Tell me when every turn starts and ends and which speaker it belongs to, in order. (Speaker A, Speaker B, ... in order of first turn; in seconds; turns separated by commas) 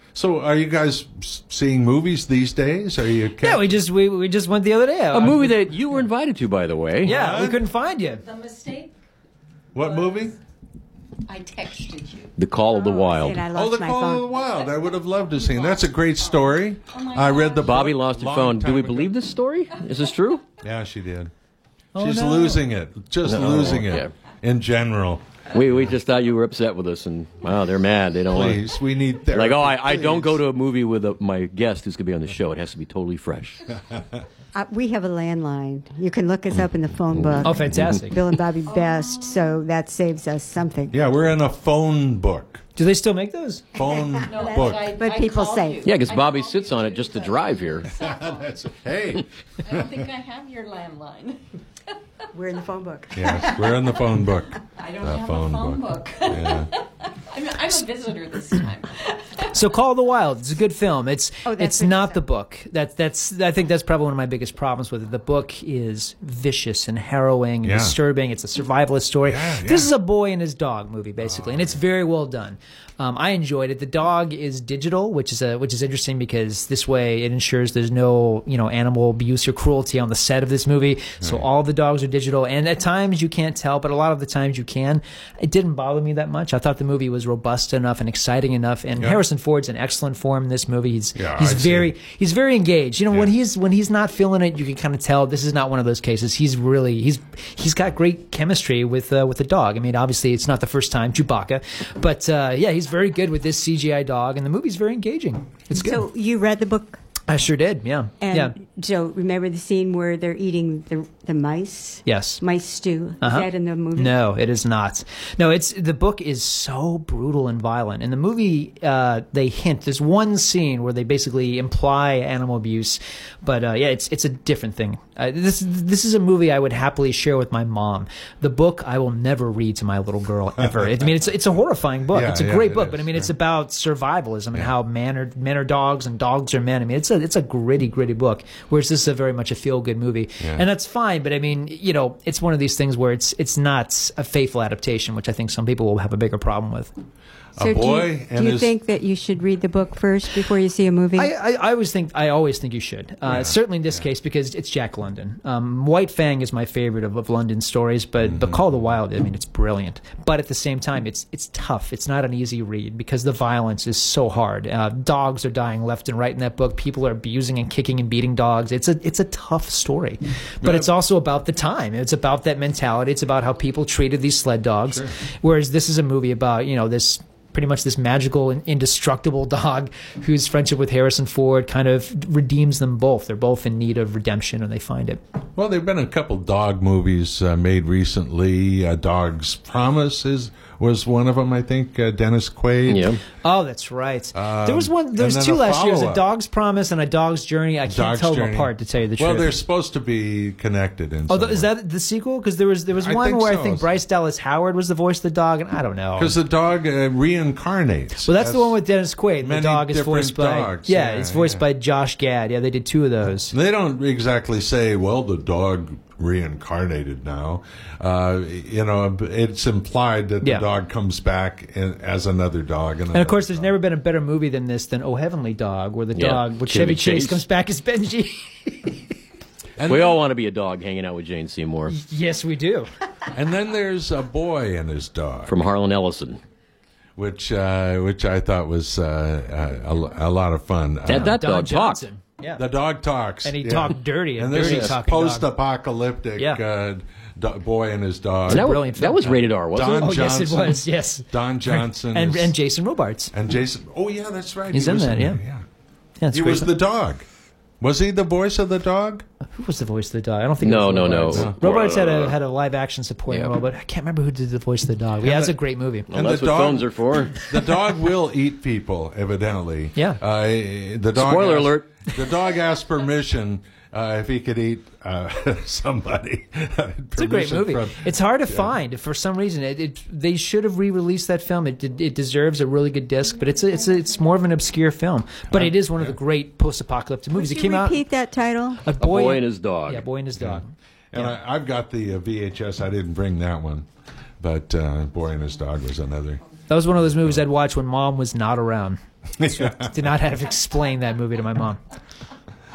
Speaker A: 0.1-3.7, Speaker B: 3.4-5.7, Speaker C: 5.1-7.2, Speaker B: 7.0-8.2, Speaker A: 7.0-7.6, Speaker D: 8.0-8.9, Speaker A: 9.7-10.3, Speaker D: 9.8-10.3, Speaker D: 11.3-13.1, Speaker C: 12.4-13.4, Speaker E: 13.1-14.3, Speaker A: 13.5-19.1, Speaker D: 15.4-15.8, Speaker D: 16.9-17.7, Speaker C: 17.6-20.4, Speaker A: 20.6-21.3, Speaker B: 21.9-22.6, Speaker A: 22.0-25.2, Speaker C: 23.2-24.1, Speaker C: 25.5-28.6, Speaker A: 28.3-30.4, Speaker C: 29.3-33.6, Speaker E: 34.5-40.9, Speaker B: 37.4-38.2, Speaker D: 38.7-39.4, Speaker A: 40.9-42.6, Speaker B: 42.8-43.6, Speaker A: 43.7-45.0, Speaker E: 43.8-45.9, Speaker D: 44.2-48.5, Speaker C: 45.8-47.9, Speaker A: 48.0-50.0, Speaker D: 49.6-51.4, Speaker E: 52.3-53.7, Speaker A: 53.1-56.7, Speaker D: 54.8-59.5, Speaker B: 59.5-106.0, Speaker E: 61.4-62.2, Speaker A: 67.6-68.0, Speaker A: 69.3-69.9, Speaker A: 71.2-71.8, Speaker A: 91.1-91.9, Speaker E: 105.7-107.0, Speaker B: 107.3-108.5, Speaker E: 108.2-114.2, Speaker B: 112.0-112.4, Speaker B: 113.2-146.9, Speaker A: 130.6-130.9, Speaker A: 132.1-133.3, Speaker A: 140.4-140.6, Speaker A: 147.6-148.7, Speaker E: 147.6-151.3, Speaker B: 151.2-185.2, Speaker A: 153.3-154.0, Speaker A: 158.2-158.6, Speaker A: 170.6-170.9, Speaker A: 185.6-193.2, Speaker C: 192.9-193.2, Speaker B: 193.4-199.5, Speaker A: 194.3-196.2, Speaker A: 197.9-201.7, Speaker B: 201.3-206.3, Speaker A: 203.0-203.9, Speaker A: 206.2-208.8, Speaker B: 208.2-213.5, Speaker A: 209.4-211.7, Speaker A: 213.5-223.7, Speaker B: 223.1-229.0, Speaker C: 226.1-227.4, Speaker A: 229.8-230.2, Speaker C: 229.8-232.0, Speaker B: 231.9-232.9, Speaker A: 233.3-235.6, Speaker C: 235.5-236.4, Speaker A: 237.2-241.3, Speaker C: 241.1-242.0, Speaker B: 241.1-242.6, Speaker A: 242.6-252.5, Speaker B: 243.4-245.5, Speaker C: 244.5-244.9, Speaker C: 248.5-250.1, Speaker B: 248.5-253.3, Speaker A: 253.3-255.6, Speaker B: 254.7-255.4, Speaker B: 256.2-256.7, Speaker A: 256.3-257.2, Speaker A: 257.8-259.2, Speaker B: 259.5-266.1, Speaker C: 260.6-262.3, Speaker A: 265.2-265.5, Speaker A: 266.1-278.7, Speaker C: 266.1-267.5, Speaker C: 271.1-271.9, Speaker B: 277.1-288.0, Speaker A: 285.5-286.1, Speaker E: 287.3-288.8, Speaker B: 288.8-291.3, Speaker C: 289.0-290.0, Speaker A: 290.4-293.9, Speaker A: 294.4-296.4, Speaker B: 296.7-301.8, Speaker A: 297.1-297.4, Speaker A: 299.4-299.9